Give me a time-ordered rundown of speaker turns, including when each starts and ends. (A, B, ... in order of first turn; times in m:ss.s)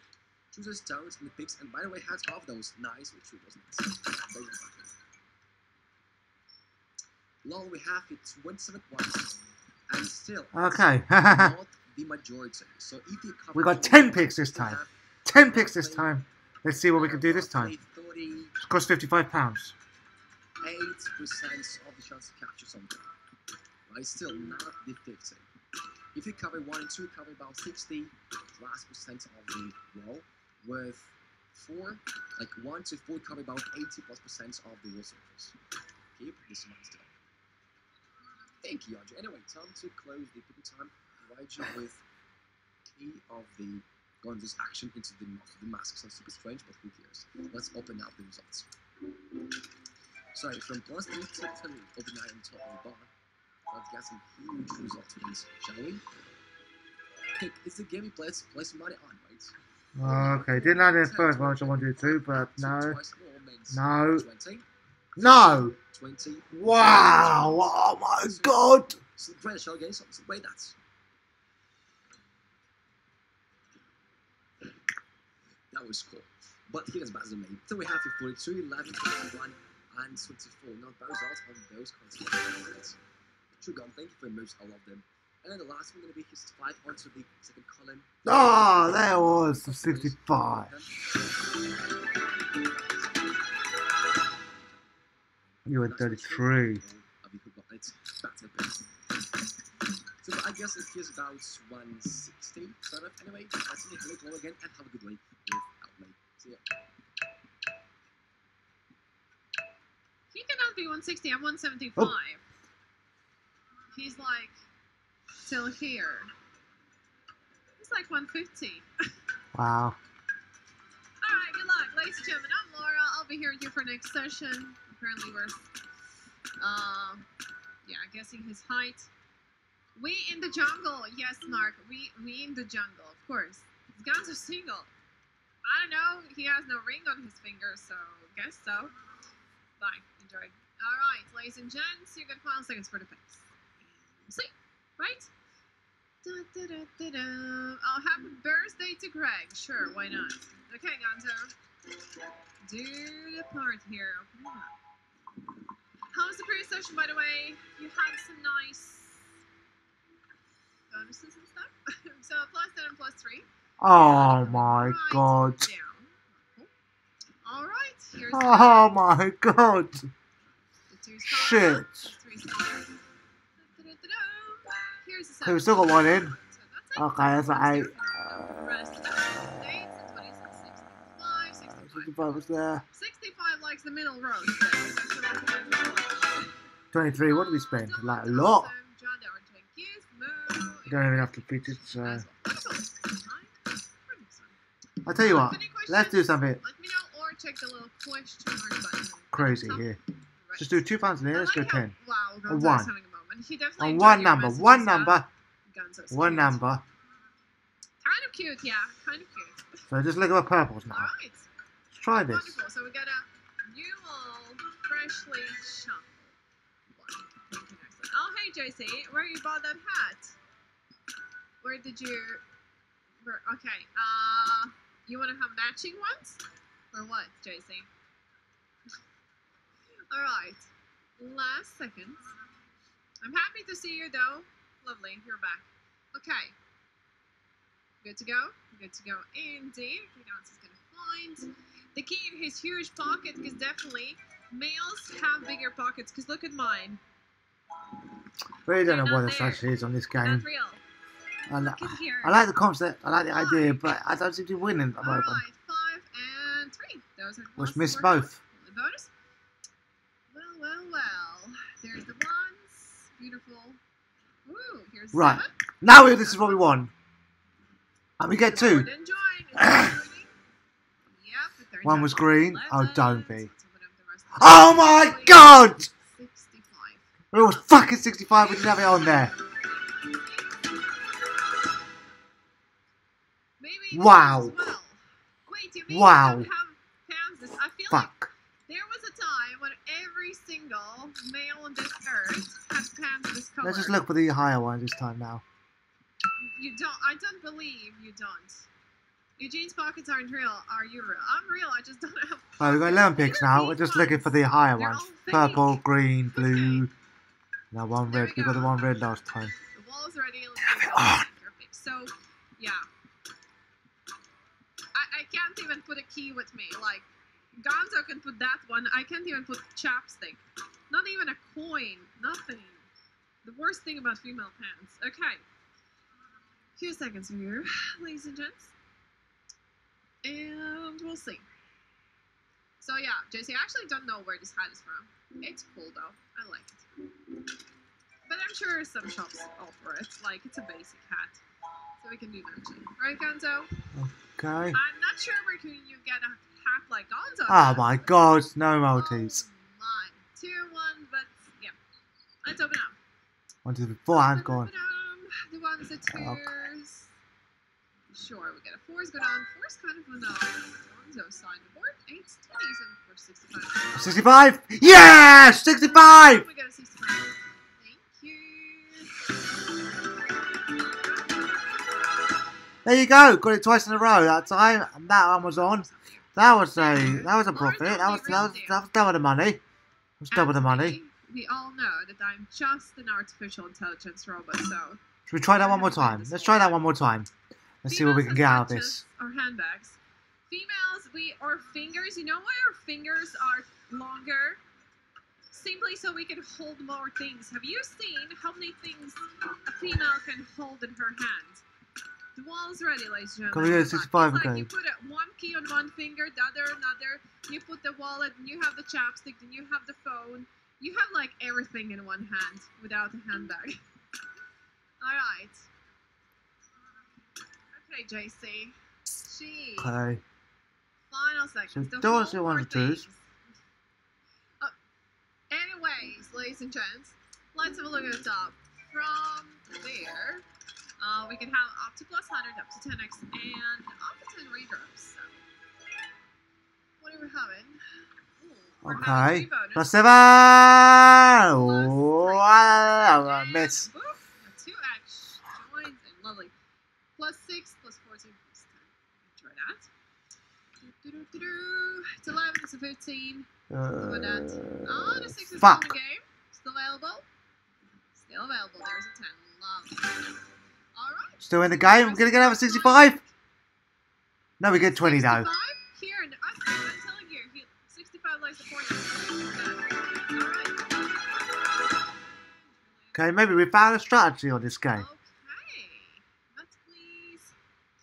0:00.5-0:04.9 A
0:07.4-0:09.4 A
0:09.9-0:16.2 A
0:10.5-0:11.6 B
0:13.5-0:17.7 B
0:16.9-0:18.6 A
0:18.6-0:19.8 B
0:20.6-0:23.1 A
0:23.9-0:25.4 A
0:26.2-0:35.6 A
0:36.2-0:37.1 A
0:38.6-0:42.0 A
0:43.0-0:48.7 A
0:50.3-0:53.1 A
0:53.7-0:56.0 A
0:57.4-1:04.6 A
1:00.0-1:03.0 B
1:03.7-1:04.3 B
1:05.2-1:05.8 B
1:05.2-1:10.8 A
1:06.5-1:09.0 B
1:15.7-1:23.0 A
1:23.6-1:31.0 A
1:28.3-1:30.7 B
1:32.2-1:33.4 A
1:34.5-1:34.8 A
1:35.7-1:36.8 B
1:35.8-1:38.9 A
1:40.2-1:46.6 A
1:50.3-1:52.4 C
1:53.9-1:54.6 C
1:55.4-1:56.3 C
1:57.8-1:58.9 C
1:59.5-2:00.0 B
2:01.2-2:05.6 C
2:06.6-2:07.3 C
2:07.8-2:09.1 C
2:10.0-2:14.9 C
2:15.6-2:18.9 C
2:19.8-2:23.4 C
2:24.0-2:25.3 C
2:26.2-2:31.5 C
2:32.6-2:34.7 C
2:36.1-2:39.3 C
2:40.9-2:46.7 C
2:43.8-2:45.7 B
2:47.4-2:49.0 C
2:48.3-2:50.1 B
2:50.9-2:53.0 C
2:51.3-2:52.1 B
2:53.6-3:02.4 C
2:55.4-2:56.4 B
2:57.0-2:58.0 B
3:01.8-3:02.8 B
3:02.9-3:06.6 C
3:06.9-3:08.7 B
3:07.2-3:14.6 C
3:10.9-3:12.3 B
3:15.1-3:16.6 B
3:15.2-3:20.8 C
3:19.3-3:20.0 B
3:20.6-3:22.0 B
3:21.3-3:26.7 C
3:22.5-3:22.9 B
3:23.8-3:25.3 B
3:26.1-3:26.8 B
3:28.0-3:29.8 C
3:29.9-3:31.1 B
3:30.9-3:31.5 C
3:31.9-3:32.6 B
3:32.2-3:36.4 C
3:36.9-3:40.4 C
3:41.6-3:42.4 C
3:43.2-3:46.4 C
3:46.9-3:47.9 C
3:50.1-3:50.7 C
3:51.2-3:52.3 C
3:53.2-3:56.6 C
3:58.0-4:07.0 C
4:08.7-4:10.5 B
4:08.8-4:10.8 C
4:11.5-4:15.4 B
4:11.6-4:12.4 C
4:13.3-4:14.0 C
4:15.0-4:19.1 C
4:17.6-4:18.4 B
4:20.3-4:23.8 C
4:24.5-4:26.7 C
4:25.1-4:26.9 B
4:28.2-4:28.9 B
4:28.4-4:30.4 C
4:29.6-4:30.0 B
4:31.1-4:37.7 C
4:31.8-4:33.5 B
4:34.4-4:35.9 B
4:37.3-4:39.3 B
4:38.4-4:40.7 C
4:43.6-4:48.1 C
4:43.9-4:44.7 B
4:45.9-4:46.5 B
4:47.9-4:48.3 B
4:48.7-4:54.0 C
4:53.6-4:55.4 B
4:56.4-4:58.6 C
4:59.4-5:06.9 C
5:02.6-5:06.9 B
5:07.7-5:09.6 B
5:08.1-5:08.8 C
5:09.7-5:12.9 C
5:10.8-5:11.2 B
5:14.9-5:17.1 C
5:17.6-5:22.9 C
5:23.4-5:25.4 C
5:26.8-5:28.7 C
5:30.2-5:31.4 C
5:32.8-5:36.8 C
5:38.3-5:41.4 C
5:42.0-5:43.7 C
5:43.9-5:44.8 B
5:44.7-5:48.2 C
5:47.5-5:49.4 B
5:48.9-5:51.8 C
5:52.4-5:53.0 C
5:53.6-5:54.7 B
5:54.1-5:57.1 C
5:56.1-5:56.5 B
5:58.1-6:04.2 C
6:04.0-6:06.4 B
6:05.6-6:09.2 C
6:10.7-6:12.3 C
6:12.8-6:19.6 B
6:13.9-6:18.8 C
6:20.2-6:21.0 B
6:20.3-6:25.0 C
6:25.3-6:27.3 B
6:25.6-6:26.9 C
6:27.8-6:29.0 B
6:27.8-6:30.0 C
6:30.5-6:34.6 C
6:35.5-6:41.6 C
6:42.4-6:53.8 C
6:43.5-6:44.7 B
6:55.0-6:55.6 C
6:57.7-7:00.0 C
6:59.8-7:00.2 B
7:01.1-7:03.2 C
7:01.7-7:03.0 B
7:05.5-7:10.5 C
7:11.0-7:15.4 C
7:17.0-7:17.8 C
7:18.4-7:19.9 C
7:18.8-7:23.9 B
7:21.5-7:26.5 C
7:27.2-7:29.9 C
7:30.8-7:37.3 C
7:33.7-7:35.9 B
7:38.2-7:40.3 C
7:41.0-7:43.3 C
7:41.5-7:43.2 B
7:44.6-7:45.5 B
7:44.7-7:53.2 C
7:53.1-7:55.1 B
7:54.9-7:57.5 C